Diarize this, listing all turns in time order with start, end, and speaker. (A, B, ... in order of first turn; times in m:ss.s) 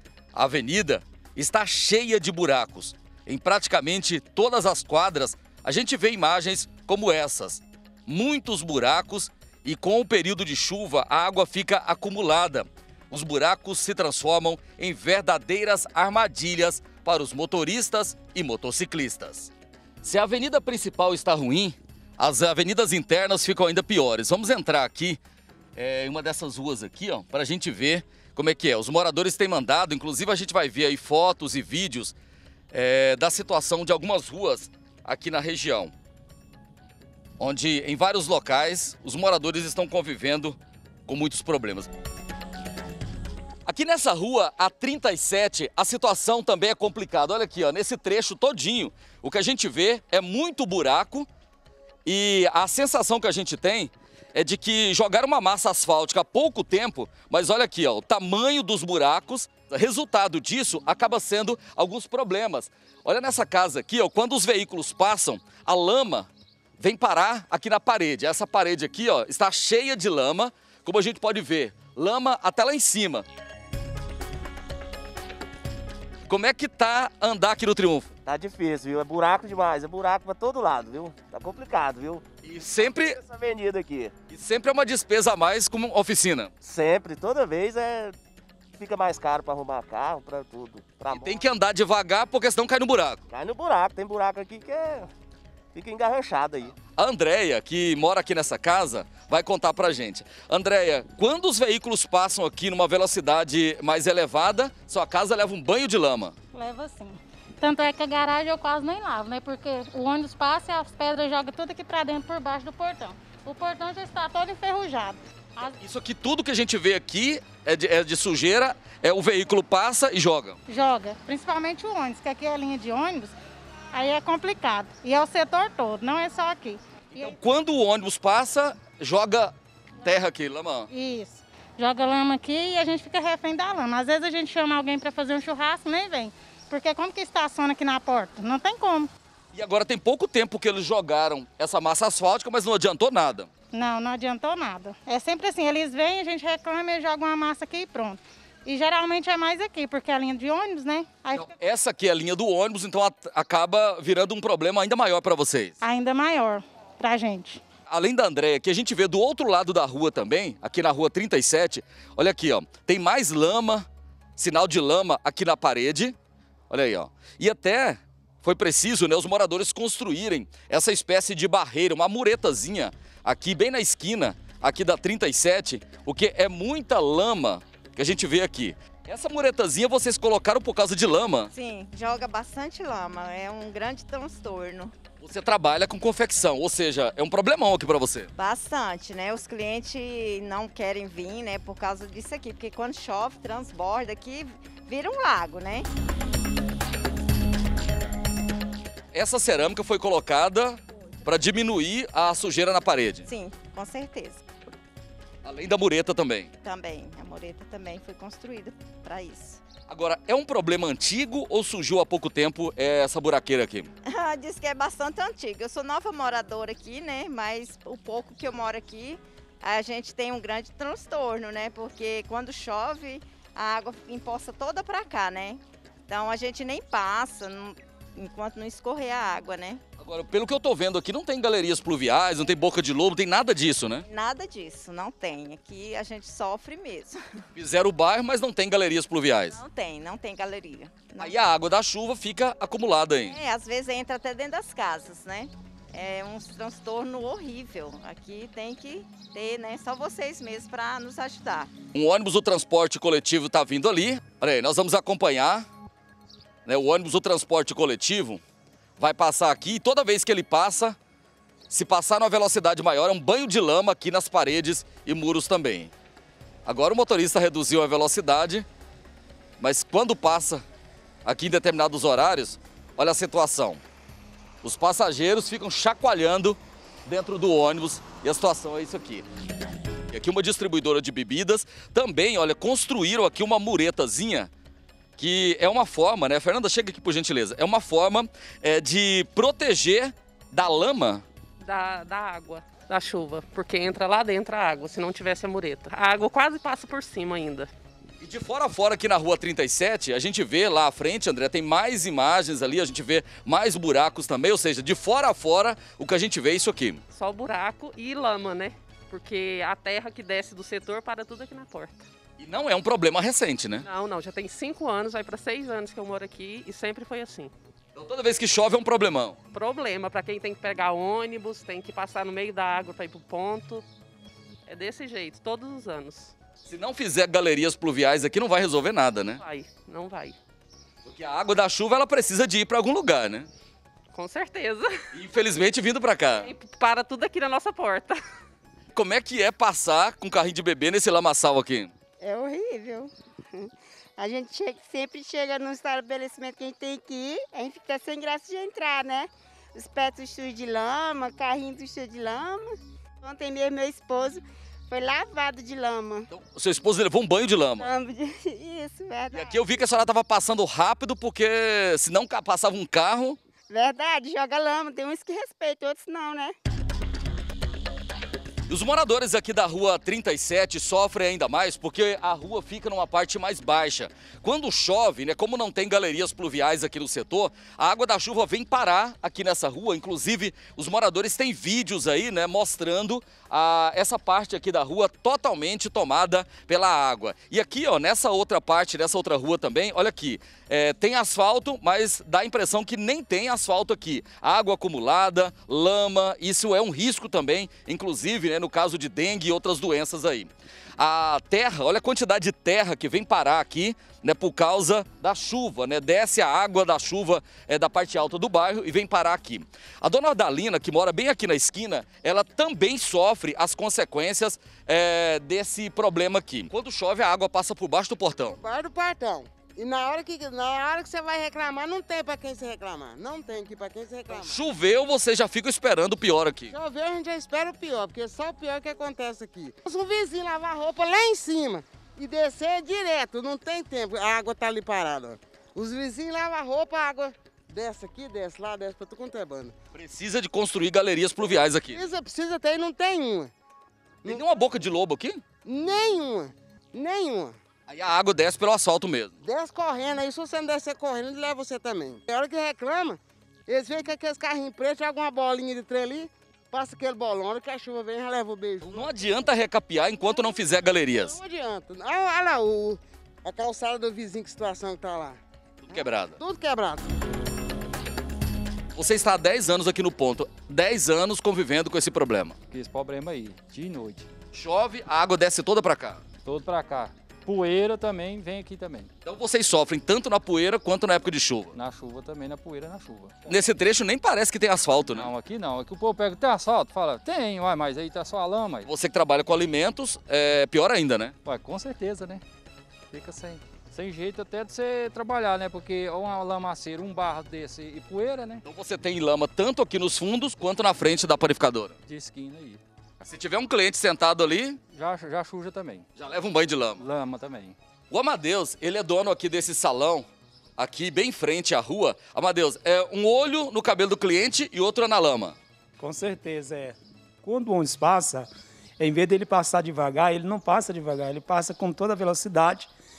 0:00.3-0:19.5 A
0:20.0-0:25.2 A
0:25.8-0:32.2 A
0:32.7-0:35.9 A
0:37.4-0:41.9 A
0:43.7-0:51.3 A
0:52.0-1:13.3 A
1:16.3-1:18.1 A
1:18.2-1:24.1 B
1:22.4-1:23.2 A
1:24.3-1:26.5 A
1:26.6-1:28.2 B
1:28.8-1:31.5 B
1:31.1-1:33.2 A
1:33.3-1:35.1 B
1:35.7-1:36.7 B
1:37.0-1:46.4 A
1:46.5-1:55.8 C
1:55.8-2:00.6 A
2:00.7-2:03.3 C
2:03.9-2:07.4 C
2:07.2-2:10.9 A
2:10.9-2:19.1 C
2:19.5-2:23.5 A
2:23.7-2:31.5 C
2:31.3-2:35.8 A
2:35.8-2:37.6 C
2:37.9-2:43.8 A
2:44.4-2:46.2 A
2:46.7-3:01.5 A
3:01.5-3:04.9 D
3:05.2-3:08.3 A
3:08.4-3:15.9 D
3:19.1-3:23.3 A
3:23.3-3:24.5 D
3:25.4-3:26.5 A
3:26.6-3:29.6 D
3:29.9-3:33.9 A
3:34.1-3:49.8 D
3:50.0-3:54.0 A
3:54.1-3:57.2 D
3:57.5-3:59.6 A
3:59.5-4:01.4 D
4:01.2-4:03.4 A
4:03.3-4:11.7 D
4:11.9-4:15.7 A
4:16.7-4:18.4 A
4:19.0-4:21.0 A
4:21.7-4:25.9 A
4:26.7-4:28.7 A
4:29.6-4:30.6 A
4:31.2-4:33.8 A
4:34.6-4:39.3 A
4:40.1-4:44.5 A
4:45.2-4:51.2 A
4:51.6-4:57.7 E
4:58.2-5:07.0 A
5:07.1-5:12.1 E
5:12.4-5:13.9 A
5:13.8-5:17.5 E
5:18.0-5:19.4 A
5:19.5-5:23.8 E
5:24.7-5:26.3 E
5:26.6-5:29.4 A
5:29.4-5:30.4 E
5:31.0-5:33.5 A
5:34.1-5:34.9 E
5:35.1-5:36.5 A
5:36.4-5:38.2 E
5:38.9-5:41.9 A
5:42.2-5:56.3 F
5:56.3-5:57.9 A
5:57.8-5:59.5 F
5:59.3-6:03.4 A
6:03.7-6:06.5 F
6:08.7-6:58.6 A
6:58.6-7:04.5 G
7:04.3-7:06.7 A
7:06.7-7:19.7 G
7:19.9-7:22.1 A
7:21.9-7:23.5 G
7:24.2-7:25.4 A
7:25.7-7:27.6 G
7:27.9-7:29.3 A
7:29.4-7:39.1 G
7:38.8-7:41.4 A
7:41.2-7:45.4 G
7:45.8-7:46.4 A
7:46.4-7:47.0 G
7:49.0-7:52.6 A
7:52.7-7:54.2 H
7:54.5-7:56.2 A
7:56.4-7:59.1 H
7:59.2-8:01.7 A
8:01.7-8:03.3 H
8:03.5-8:05.3 A
8:05.2-8:08.9 H
8:08.8-8:11.3 A
8:11.4-8:12.4 H
8:13.1-8:18.6 H
8:18.6-8:22.0 A
8:22.1-8:22.8 H
8:23.2-8:24.8 A
8:25.0-8:26.0 H
8:26.2-8:27.0 A
8:27.0-8:27.8 H
8:28.1-8:35.6 A
8:36.0-8:42.9 I